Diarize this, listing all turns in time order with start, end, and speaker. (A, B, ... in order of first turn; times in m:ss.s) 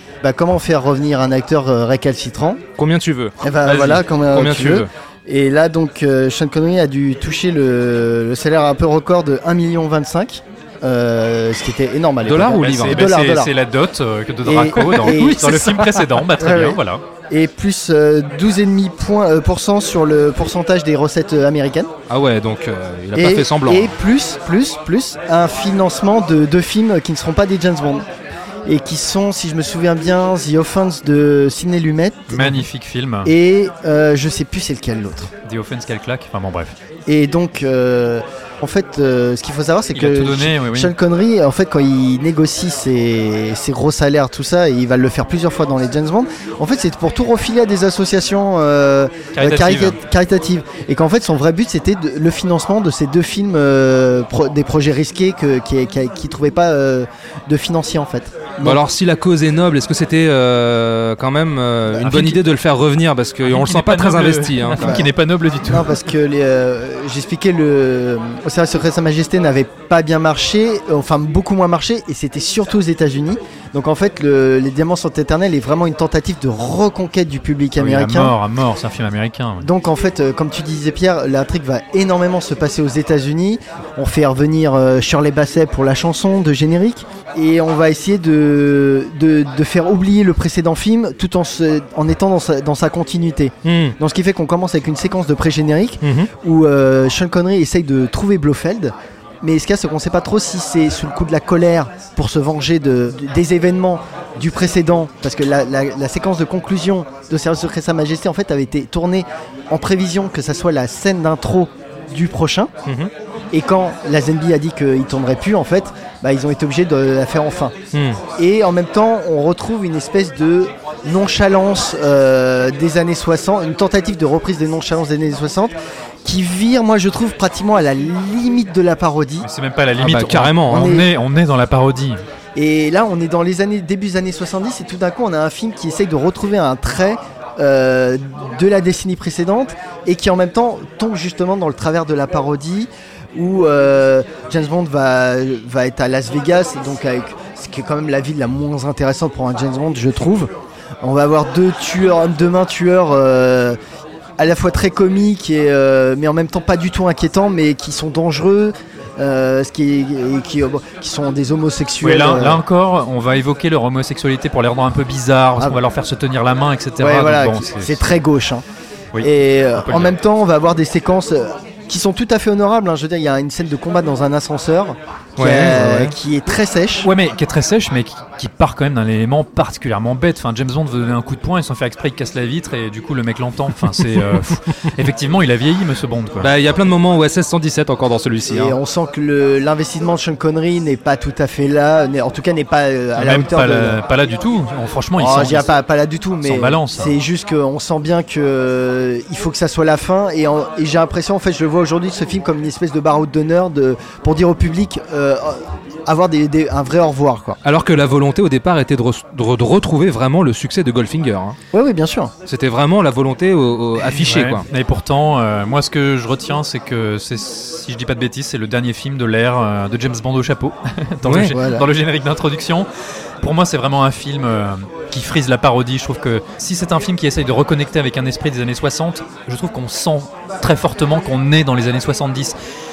0:00.2-0:02.6 A
0:02.8-0:04.9 B
0:03.4-0:13.5 A
0:12.2-0:13.1 B
0:12.5-0:17.0 C
0:14.4-0:15.6 A
0:14.8-0:16.0 B
0:16.4-0:16.8 A
0:17.3-0:21.9 A
0:22.1-0:23.9 B
0:23.1-0:28.0 A
0:28.6-0:32.6 A
0:32.3-0:33.3 C
0:33.2-0:35.3 A
0:35.4-0:36.7 C
0:37.1-0:58.8 A
0:39.9-0:40.9 C
0:49.3-0:50.0 C
0:58.6-1:05.0 B
1:02.0-1:02.4 C
1:03.4-1:05.9 C
1:04.8-1:05.1 A
1:05.6-1:18.3 A
1:17.8-1:19.7 C
1:19.6-1:52.7 A
1:33.6-1:34.0 B
1:36.0-1:36.3 B
1:53.5-1:57.7 A
1:57.9-1:58.2 B
1:58.4-2:09.5 A
2:09.4-2:12.2 C
2:10.0-2:10.9 B
2:10.7-2:11.1 A
2:12.5-2:30.5 A
2:31.0-2:33.8 A
2:34.4-2:42.6 A
2:42.0-2:48.1 C
2:47.0-2:48.6 A
2:49.1-2:50.1 C
2:49.2-2:57.1 A
2:55.4-2:56.1 B
2:57.0-3:06.5 C
3:03.9-3:04.5 B
3:06.4-3:08.8 B
3:08.5-3:14.0 A
3:13.2-3:15.7 C
3:15.2-3:27.6 A
3:16.4-3:17.2 C
3:27.6-3:31.6 B
3:31.7-3:32.3 A
3:32.5-3:34.6 B
3:34.0-3:42.9 C
3:41.2-3:41.5 B
3:41.5-3:41.9 A
3:43.4-3:52.5 C